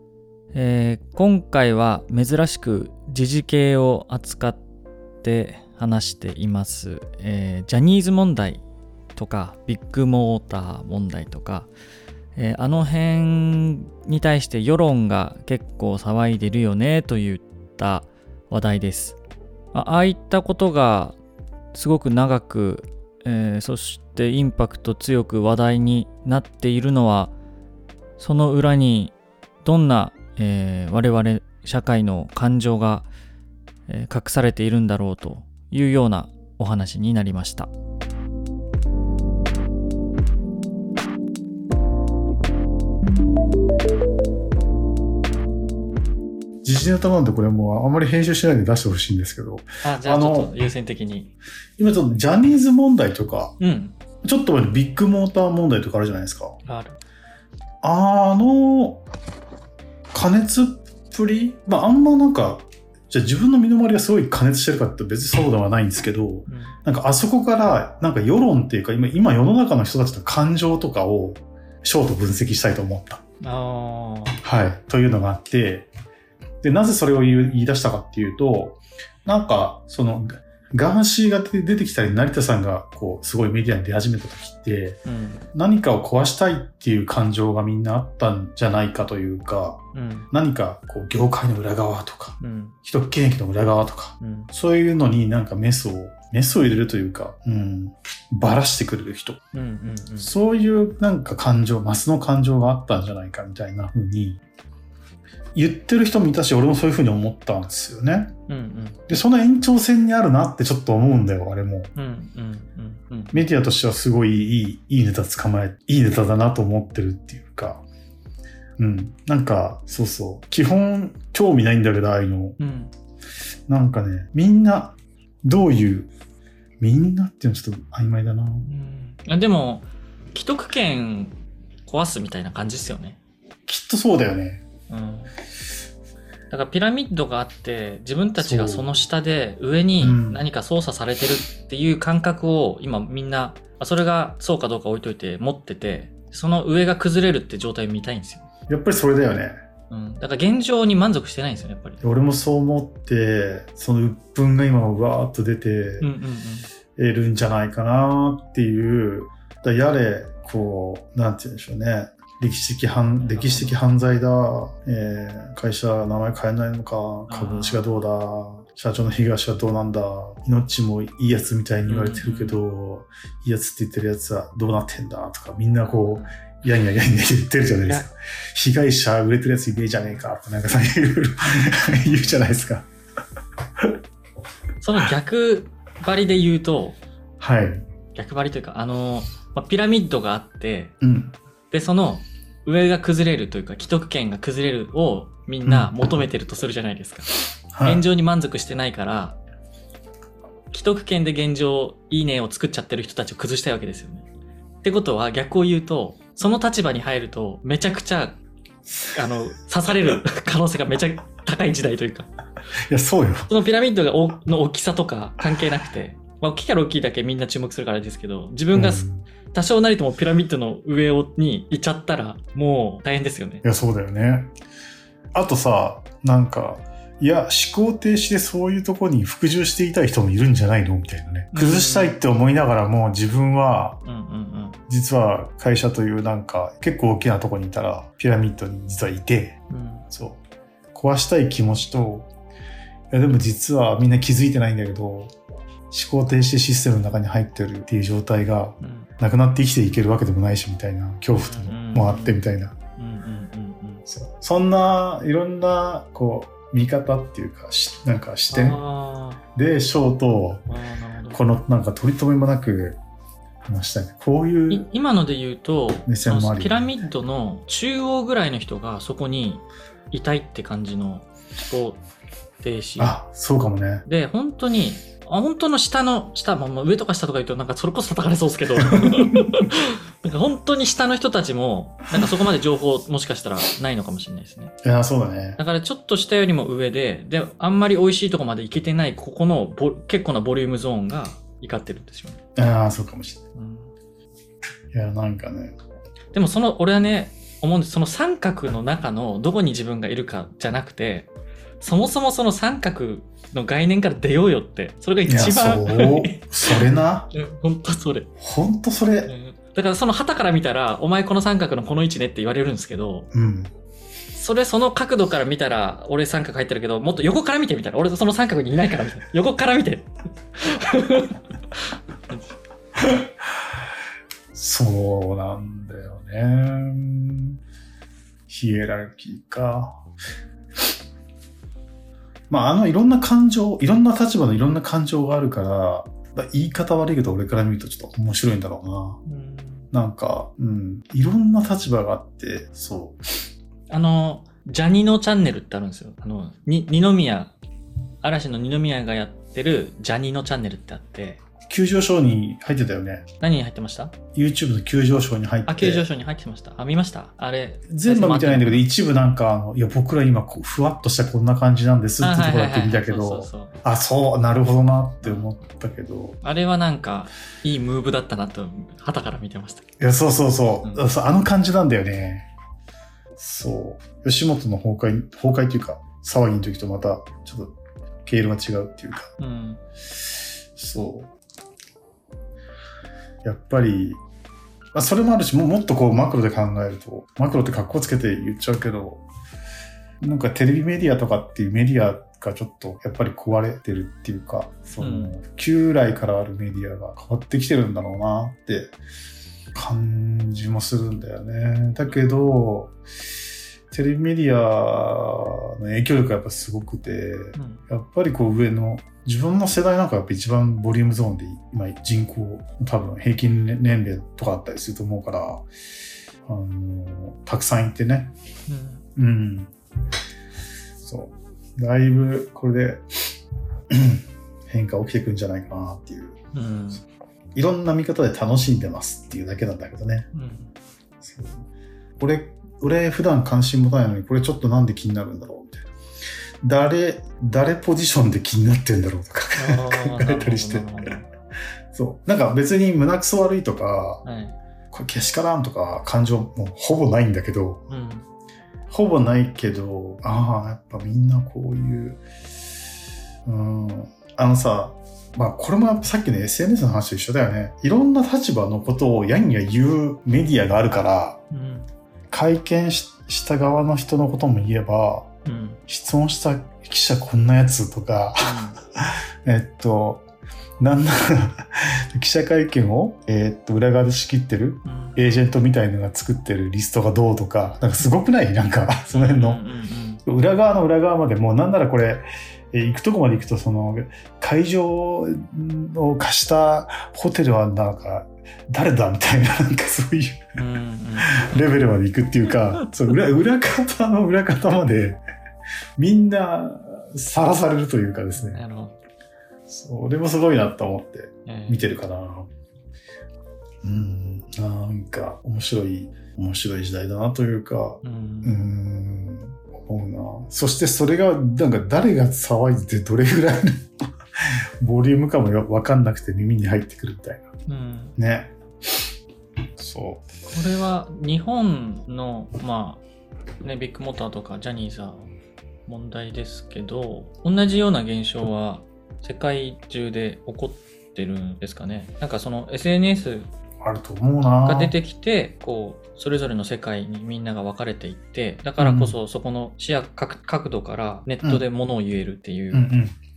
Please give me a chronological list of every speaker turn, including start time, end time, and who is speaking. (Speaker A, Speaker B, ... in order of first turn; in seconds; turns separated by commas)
Speaker A: 0.5-4.6, Speaker A: 5.2-8.6, Speaker A: 9.2-11.7, Speaker A: 12.4-19.2, Speaker A: 19.7-21.2, Speaker A: 21.7-27.3, Speaker A: 28.2-33.1, Speaker A: 33.9-37.7, Speaker B: 46.6-50.5, Speaker A: 49.8-51.3, Speaker B: 51.8-53.5, Speaker A: 53.6-54.0, Speaker B: 54.2-56.6, Speaker A: 56.6-57.0, Speaker B: 57.8-59.0, Speaker B: 60.1-73.2, Speaker A: 66.5-66.8, Speaker A: 73.4-74.4, Speaker B: 74.4-75.9, Speaker B: 76.6-85.0, Speaker A: 85.0-85.5, Speaker B: 85.5-89.8, Speaker A: 89.9-90.3, Speaker B: 90.3-99.4, Speaker A: 92.4-92.8, Speaker A: 94.2-94.5, Speaker A: 99.5-100.3, Speaker B: 100.2-104.4, Speaker B: 105.5-108.3, Speaker A: 108.5-109.0, Speaker B: 109.1-111.9, Speaker A: 112.0-113.5, Speaker B: 113.3-117.8, Speaker B: 118.8-122.6, Speaker A: 122.6-122.9, Speaker B: 123.7-126.1, Speaker B: 126.8-128.7, Speaker A: 128.7-133.2, Speaker B: 133.7-134.7, Speaker A: 134.9-135.3, Speaker A: 136.5-148.5, Speaker B: 138.4-138.9, Speaker B: 140.0-140.4, Speaker B: 148.7-149.6, Speaker A: 149.9-152.0, Speaker B: 152.0-156.1, Speaker A: 156.0-156.7, Speaker B: 157.0-182.9, Speaker A: 163.2-163.8, Speaker A: 167.3-168.0, Speaker A: 171.9-172.6, Speaker A: 175.8-176.3, Speaker A: 181.8-182.5, Speaker A: 184.8-187.0, Speaker B: 187.4-187.8, Speaker A: 188.2-190.9, Speaker B: 191.0-191.3, Speaker A: 191.7-199.4, Speaker B: 195.7-196.2, Speaker B: 197.7-198.0, Speaker A: 200.7-204.3, Speaker A: 204.8-208.4, Speaker A: 209.1-212.3, Speaker B: 212.9-213.5, Speaker A: 213.5-223.6, Speaker B: 218.7-219.3, Speaker B: 223.6-224.5, Speaker B: 225.3-234.0, Speaker A: 231.5-232.2, Speaker A: 234.1-234.8, Speaker B: 234.9-239.6, Speaker A: 239.7-240.1, Speaker B: 240.1-240.4, Speaker B: 240.9-242.3, Speaker B: 243.1-245.3, Speaker B: 245.9-252.7, Speaker A: 248.8-249.1, Speaker A: 251.3-252.5, Speaker A: 253.0-254.0, Speaker B: 254.1-258.8, Speaker A: 258.5-259.4, Speaker B: 259.6-260.7, Speaker A: 260.7-261.4, Speaker B: 261.3-263.0, Speaker B: 263.6-264.9, Speaker A: 264.7-272.0, Speaker B: 266.1-266.9, Speaker A: 272.6-273.2, Speaker B: 273.0-274.1, Speaker A: 274.1-284.7, Speaker B: 278.9-279.2, Speaker B: 284.8-285.6, Speaker A: 285.6-292.4, Speaker B: 292.6-293.4, Speaker A: 293.6-293.9, Speaker B: 294.9-295.8, Speaker A: 296.3-301.3, Speaker A: 301.8-308.3, Speaker B: 305.3-307.3, Speaker B: 308.4-309.3, Speaker A: 309.3-313.3, Speaker B: 313.3-313.7, Speaker A: 314.4-321.8, Speaker B: 324.5-327.6, Speaker B: 328.5-330.0, Speaker B: 332.5-339.2, Speaker A: 339.3-339.9, Speaker B: 339.9-343.2, Speaker A: 343.9-347.5, Speaker A: 348.2-351.4, Speaker B: 351.7-353.2, Speaker A: 353.4-354.1, Speaker B: 354.3-356.1, Speaker A: 355.7-358.9, Speaker B: 357.9-366.4, Speaker A: 362.2-363.8, Speaker A: 365.2-365.5, Speaker A: 366.4-369.8, Speaker B: 370.0-372.5, Speaker B: 373.4-379.3, Speaker A: 379.4-379.8, Speaker B: 380.8-381.3, Speaker B: 383.4-384.2, Speaker B: 384.9-389.2, Speaker B: 390.2-399.0, Speaker A: 395.0-395.4, Speaker B: 399.7-403.0, Speaker B: 403.9-415.6, Speaker A: 407.6-407.8, Speaker B: 416.5-418.3, Speaker A: 418.7-419.0, Speaker B: 419.2-419.7, Speaker B: 421.0-423.2, Speaker B: 423.9-426.4, Speaker A: 426.5-427.0, Speaker B: 427.6-430.3, Speaker A: 430.3-430.7, Speaker B: 431.2-431.6, Speaker B: 432.2-435.9, Speaker B: 436.6-441.1, Speaker A: 439.6-441.3, Speaker B: 441.9-444.2, Speaker A: 444.2-444.6, Speaker B: 444.9-447.8, Speaker A: 447.9-448.3, Speaker B: 448.9-452.2, Speaker B: 453.4-461.4, Speaker A: 461.5-461.9, Speaker B: 462.3-465.3, Speaker A: 465.4-465.8, Speaker B: 465.9-470.3, Speaker A: 468.4-468.8, Speaker B: 470.8-479.6, Speaker A: 474.9-475.2, Speaker A: 479.1-480.2, Speaker B: 480.3-490.6, Speaker A: 490.6-491.5, Speaker B: 491.2-495.2, Speaker B: 496.0-498.6, Speaker A: 498.4-499.0, Speaker B: 499.7-502.5, Speaker A: 501.5-501.8, Speaker B: 503.8-513.9, Speaker A: 508.0-508.6, Speaker B: 514.4-517.5, Speaker A: 517.7-518.2, Speaker B: 518.2-518.5, Speaker B: 519.8-520.3, Speaker A: 520.5-523.0, Speaker A: 523.6-525.3, Speaker A: 525.9-533.5, Speaker B: 533.8-535.0, Speaker A: 534.6-542.9, Speaker B: 538.8-539.2, Speaker B: 542.7-543.1